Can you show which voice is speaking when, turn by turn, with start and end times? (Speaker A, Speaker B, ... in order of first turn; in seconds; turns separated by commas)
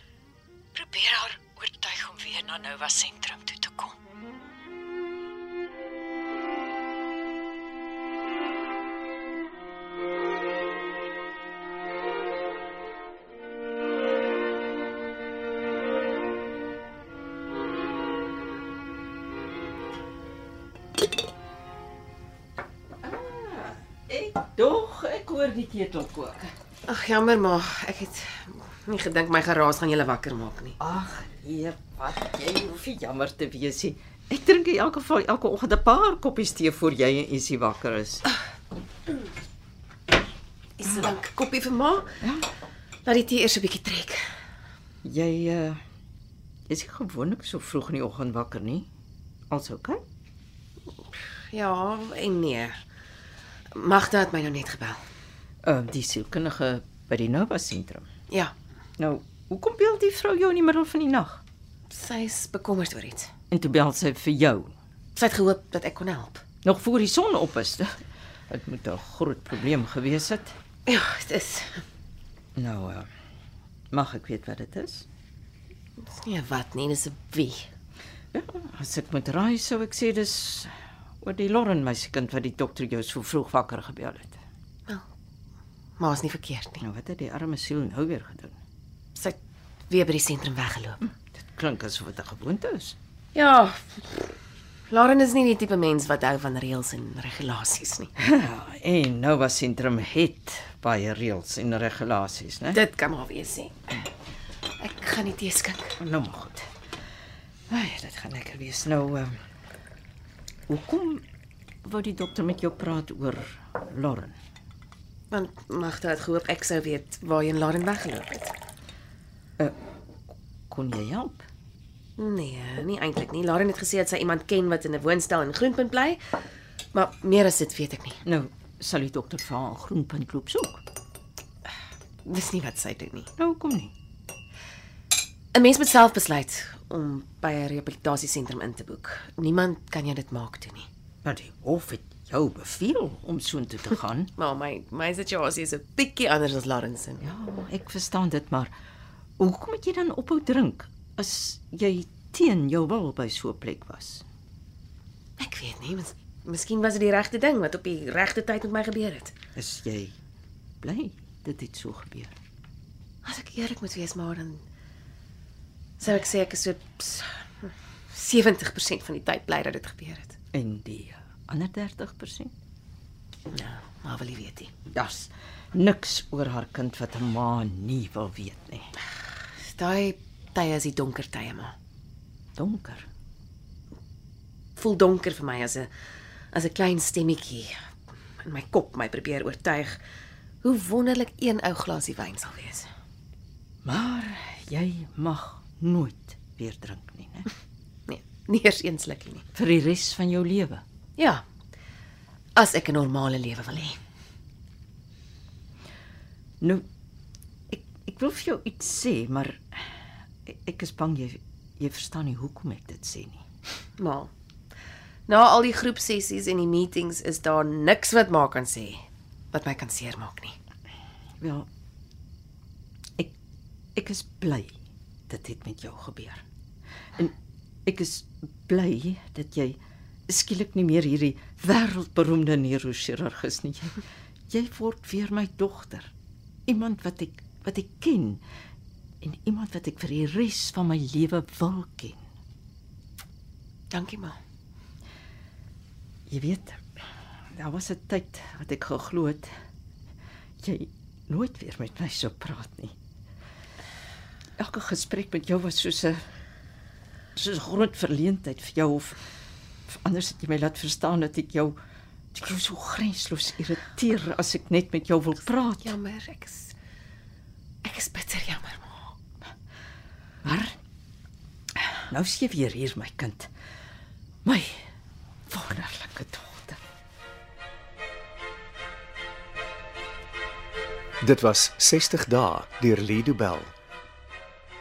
Speaker A: 0.7-3.9, Speaker B: 23.0-26.5, Speaker C: 26.9-30.8, Speaker B: 30.8-38.2, Speaker C: 40.8-42.2, Speaker B: 42.2-42.5, Speaker C: 43.0-44.2, Speaker B: 45.0-45.8, Speaker B: 46.7-48.9, Speaker B: 49.5-50.0, Speaker C: 51.2-52.8, Speaker C: 53.7-55.0, Speaker B: 55.6-58.1, Speaker B: 59.0-61.4, Speaker C: 61.9-63.3, Speaker B: 63.5-64.7, Speaker C: 65.2-66.4, Speaker B: 66.6-67.8, Speaker B: 68.5-70.5, Speaker C: 70.8-71.8, Speaker B: 72.5-73.1, Speaker B: 73.9-75.0, Speaker C: 76.0-77.7, Speaker B: 78.3-80.7, Speaker B: 81.2-84.4, Speaker C: 86.0-86.8, Speaker B: 86.8-88.5, Speaker C: 89.9-91.0, Speaker B: 91.4-93.0, Speaker C: 93.3-94.3, Speaker C: 94.9-98.1, Speaker B: 98.2-102.8, Speaker C: 102.7-104.1, Speaker C: 104.8-106.0, Speaker B: 106.0-106.6, Speaker B: 107.7-109.3, Speaker B: 110.7-111.2, Speaker B: 111.8-114.3, Speaker C: 115.3-118.5, Speaker B: 120.7-121.5, Speaker C: 122.2-126.3, Speaker C: 126.9-128.2, Speaker B: 128.2-130.8, Speaker C: 132.2-133.3, Speaker B: 133.4-133.9, Speaker C: 135.5-140.9, Speaker B: 141.2-144.3, Speaker C: 144.3-147.3, Speaker B: 147.2-148.7, Speaker B: 149.4-154.2, Speaker C: 155.4-159.3, Speaker B: 159.6-160.2, Speaker B: 160.8-162.3, Speaker C: 163.2-164.6, Speaker C: 166.0-170.4, Speaker B: 170.5-172.5, Speaker C: 173.5-174.7, Speaker B: 174.9-178.9, Speaker C: 179.7-181.7, Speaker B: 182.6-183.1, Speaker C: 184.8-185.9, Speaker C: 186.5-187.8, Speaker C: 188.4-190.0, Speaker C: 190.6-192.9, Speaker B: 193.8-197.5, Speaker C: 198.1-199.4, Speaker B: 199.5-200.8, Speaker C: 201.2-201.4, Speaker C: 202.6-204.0, Speaker B: 207.7-209.7, Speaker B: 210.4-213.4, Speaker C: 214.0-214.3, Speaker C: 215.3-220.5, Speaker B: 221.4-221.7, Speaker B: 223.9-224.7, Speaker B: 225.3-226.4, Speaker B: 227.8-236.1, Speaker B: 236.7-238.4, Speaker B: 239.2-242.2, Speaker C: 243.9-244.4, Speaker B: 246.3-246.8, Speaker B: 247.5-249.5, Speaker B: 250.6-252.9, Speaker B: 254.6-256.2, Speaker B: 257.4-259.2, Speaker B: 259.9-261.8, Speaker B: 262.3-265.9, Speaker C: 265.8-266.7, Speaker C: 267.8-269.1, Speaker B: 270.4-270.8, Speaker B: 272.1-273.5, Speaker B: 274.4-274.8, Speaker B: 275.5-276.8, Speaker D: 281.2-283.7